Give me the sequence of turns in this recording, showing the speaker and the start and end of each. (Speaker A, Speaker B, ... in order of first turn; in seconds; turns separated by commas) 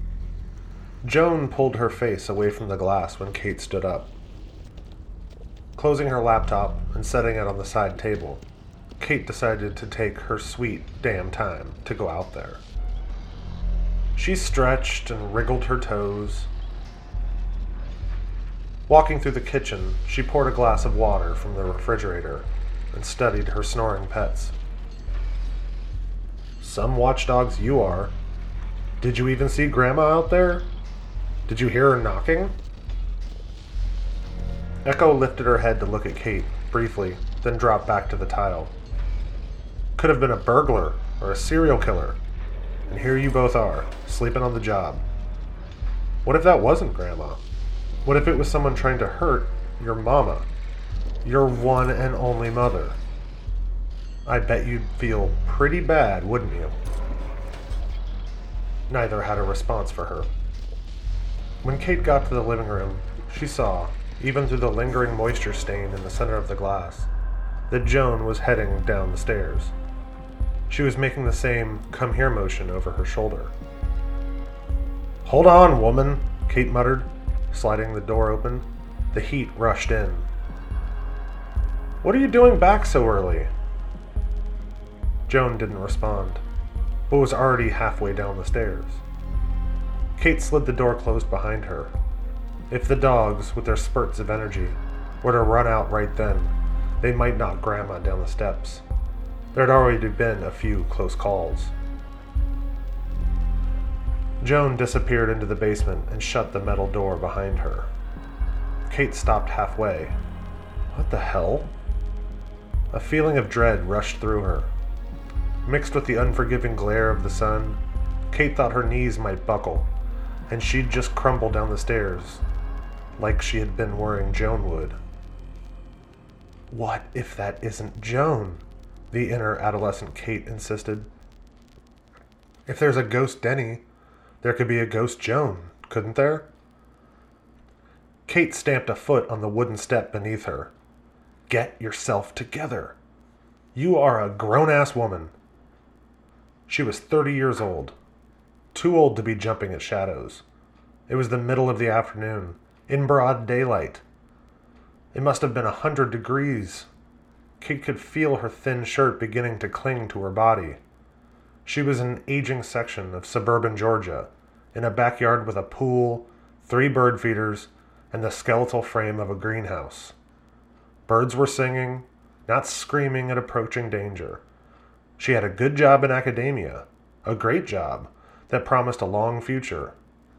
Speaker A: 1.0-4.1, Speaker A: 5.8-8.4, Speaker A: 9.0-12.6, Speaker A: 14.1-16.5, Speaker A: 18.9-24.5, Speaker A: 26.6-28.1, Speaker A: 29.0-30.7, Speaker A: 31.5-32.5, Speaker A: 34.8-38.7, Speaker A: 40.0-42.2, Speaker A: 42.9-45.0, Speaker A: 46.2-47.4, Speaker A: 48.0-50.5, Speaker A: 51.2-53.0, Speaker A: 54.2-56.8, Speaker A: 58.9-60.3, Speaker A: 61.6-67.1, Speaker A: 67.7-69.7, Speaker A: 70.7-73.5, Speaker A: 75.2-80.3, Speaker A: 82.0-83.5, Speaker A: 85.3-86.4, Speaker A: 87.1-89.0, Speaker A: 90.2-91.9, Speaker A: 92.7-98.8, Speaker A: 99.5-101.7, Speaker A: 104.4-107.9, Speaker A: 108.9-110.2, Speaker A: 110.9-111.7, Speaker A: 112.9-114.7, Speaker A: 115.6-119.9, Speaker A: 120.5-122.4, Speaker A: 123.2-125.0, Speaker A: 126.7-131.1, Speaker A: 132.7-133.8, Speaker A: 134.4-136.5, Speaker A: 138.2-140.7, Speaker A: 141.5-143.0, Speaker A: 143.8-145.3, Speaker A: 146.7-148.0, Speaker A: 148.7-150.4, Speaker A: 151.1-154.0, Speaker A: 155.1-156.9, Speaker A: 157.6-160.8, Speaker A: 161.6-170.1, Speaker A: 171.1-174.4, Speaker A: 175.2-180.0